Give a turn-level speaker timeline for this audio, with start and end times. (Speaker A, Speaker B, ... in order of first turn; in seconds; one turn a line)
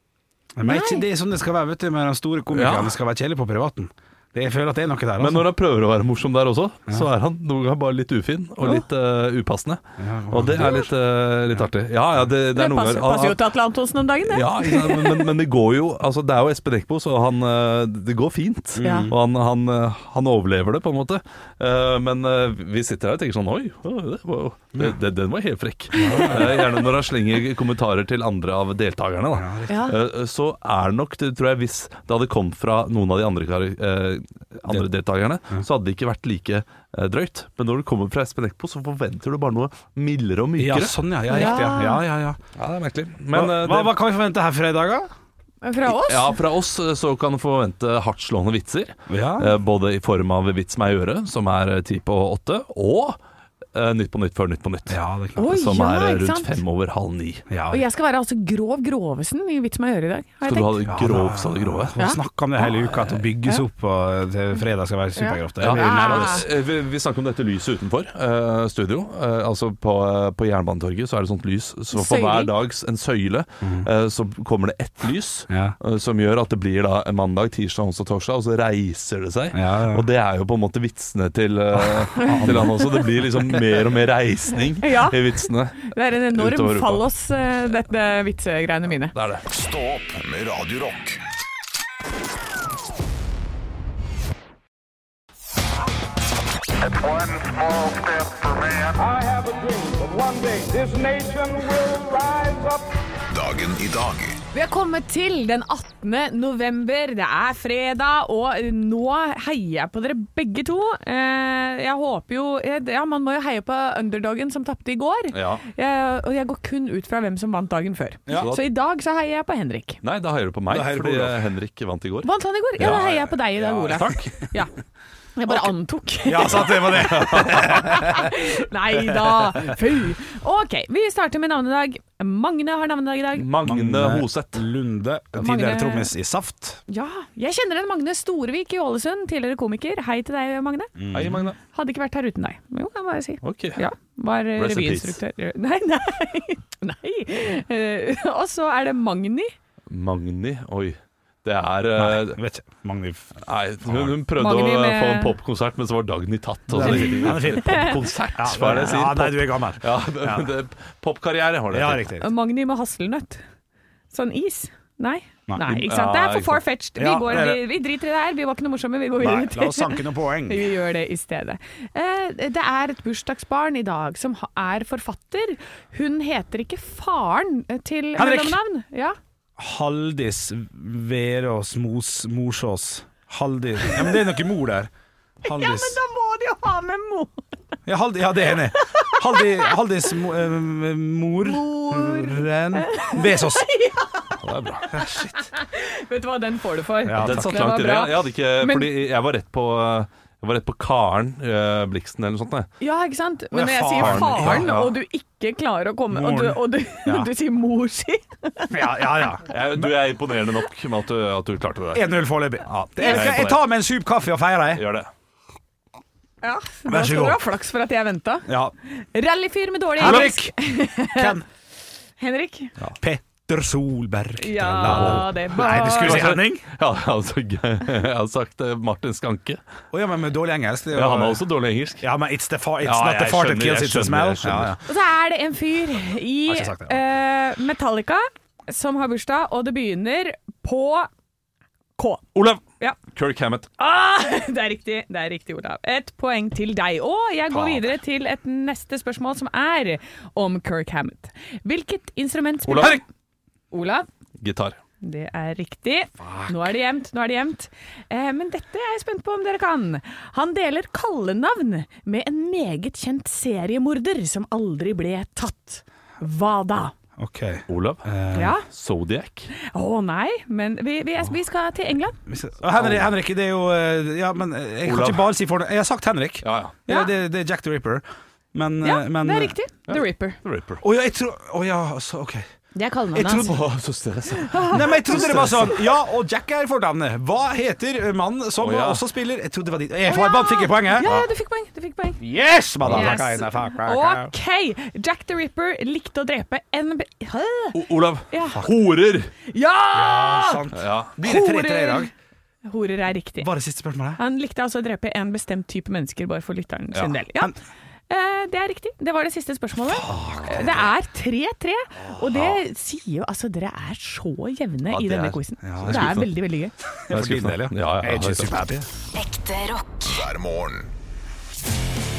Speaker A: 0.6-5.5
Speaker B: 0.6-1.0
Speaker C: 2.5-2.9
Speaker C: 5.2-13.4
Speaker A: 10.0-10.9
Speaker B: 10.6-10.9
Speaker B: 12.5-15.3
Speaker C: 14.2-41.0
Speaker A: 18.8-19.1
Speaker B: 18.8-19.1
Speaker B: 25.9-26.6
Speaker A: 26.0-26.6
Speaker A: 29.3-29.7
Speaker B: 29.7-29.9
Speaker A: 40.6-42.4
Speaker B: 41.3-42.0
Speaker C: 42.5-43.9
Speaker A: 43.3-45.1
Speaker B: 45.6-46.3
Speaker C: 45.9-53.2
Speaker A: 49.1-49.5
Speaker C: 53.7-57.5
Speaker A: 54.9-55.5
Speaker B: 55.4-56.6
Speaker A: 57.5-57.8
Speaker B: 57.7-60.8
Speaker C: 60.4-62.0
Speaker A: 60.9-66.5
Speaker C: 62.9-63.2
Speaker B: 65.2-66.4
Speaker C: 65.6-87.0
Speaker B: 71.9-72.5
Speaker A: 73.6-73.9
Speaker A: 75.5-75.8
Speaker A: 79.5-80.1
Speaker A: 81.8-82.7
Speaker B: 82.1-83.0
Speaker B: 84.8-89.1
Speaker C: 89.1-89.5
Speaker D: 89.5-91.2
Speaker E: 96.8-102.9
Speaker D: 103.3-104.4
Speaker B: 104.5-120.0
Speaker C: 115.3-115.6
Speaker C: 118.3-118.6
Speaker C: 120.0-124.3
Speaker A: 120.7-121.4
Speaker B: 122.2-124.7
Speaker B: 125.3-133.5
Speaker A: 126.2-128.3
Speaker C: 126.5-128.0
Speaker C: 133.3-134.7
Speaker A: 133.6-136.8
Speaker B: 135.3-136.1
Speaker B: 136.9-140.9
Speaker A: 141.0-141.4
Speaker C: 141.1-141.6
Speaker B: 141.7-149.5
Speaker C: 143.4-143.8
Speaker C: 144.6-145.2
Speaker C: 149.9-152.4
Speaker A: 152.0-154.2
Speaker C: 153.4-162.0
Speaker B: 154.3-155.3
Speaker A: 156.7-160.5
Speaker B: 156.8-158.1
Speaker A: 161.7-162.3
Speaker B: 162.2-163.4
Speaker B: 164.1-179.2
Speaker C: 165.6-166.6
Speaker A: 167.0-167.6
Speaker A: 169.2-170.7
Speaker A: 178.2-178.6
Speaker A: 179.6-184.9
Speaker B: 183.8-184.2
Speaker A: 185.4-186.0
Speaker B: 185.4-187.4
Speaker A: 187.8-193.7
Speaker B: 188.6-189.8
Speaker B: 191.4-194.4
Speaker C: 194.4-194.9
Speaker A: 194.9-195.5
Speaker B: 194.9-198.9
Speaker A: 197.0-197.7
Speaker C: 197.2-202.7
Speaker B: 202.8-209.2
Speaker A: 203.5-204.7
Speaker C: 203.9-204.9
Speaker A: 206.1-207.3
Speaker A: 208.7-209.9
Speaker C: 209.5-213.6
Speaker A: 211.9-214.8
Speaker B: 213.0-213.4
Speaker C: 214.7-215.1
Speaker B: 216.4-221.3
Speaker A: 216.9-217.4
Speaker A: 218.5-218.7
Speaker A: 220.0-221.4
Speaker C: 220.0-220.3
Speaker B: 222.2-222.8
Speaker A: 222.8-226.6
Speaker B: 224.4-226.3
Speaker C: 224.8-229.6
Speaker A: 229.9-231.4
Speaker C: 230.9-232.0
Speaker A: 232.0-234.8
Speaker C: 232.8-234.8
Speaker B: 234.8-241.1
Speaker A: 236.5-237.0
Speaker B: 242.0-242.2
Speaker C: 242.3-242.6
Speaker C: 243.1-243.7
Speaker B: 243.8-253.0
Speaker C: 252.7-253.0
Speaker B: 253.7-254.1
Speaker C: 254.4-254.8
Speaker B: 255.0-266.9
Speaker A: 256.2-256.5
Speaker A: 267.2-268.5
Speaker C: 267.7-268.0
Speaker B: 268.3-268.6
Speaker C: 268.6-269.5
Speaker B: 269.6-272.1
Speaker A: 272.3-278.0
Speaker C: 272.7-273.1
Speaker C: 274.8-275.3
Speaker C: 276.4-276.8
Speaker A: 278.5-279.5
Speaker B: 278.8-280.4
Speaker C: 279.9-280.8
Speaker A: 280.8-282.4
Speaker B: 282.7-283.6
Speaker A: 283.1-283.6
Speaker C: 283.3-285.7
Speaker B: 284.4-285.6
Speaker A: 284.7-291.1
Speaker C: 288.6-289.0
Speaker B: 290.1-292.2
Speaker C: 291.0-291.3
Speaker A: 292.2-294.3
Speaker C: 292.8-293.2
Speaker B: 292.9-298.6
Speaker C: 297.7-299.3
Speaker B: 299.4-300.6
Speaker A: 299.9-302.1
Speaker C: 300.7-301.1
Speaker B: 301.2-302.1
Speaker B: 302.6-303.5
Speaker A: 303.4-304.2
Speaker B: 304.2-307.5
Speaker B: 308.1-316.7
Speaker A: 309.9-310.8
Speaker C: 310.0-310.7
Speaker C: 312.2-312.6
Speaker C: 314.9-316.3
Speaker A: 315.6-316.2
Speaker A: 317.1-318.9
Speaker C: 317.1-318.6
Speaker D: 319.2-320.9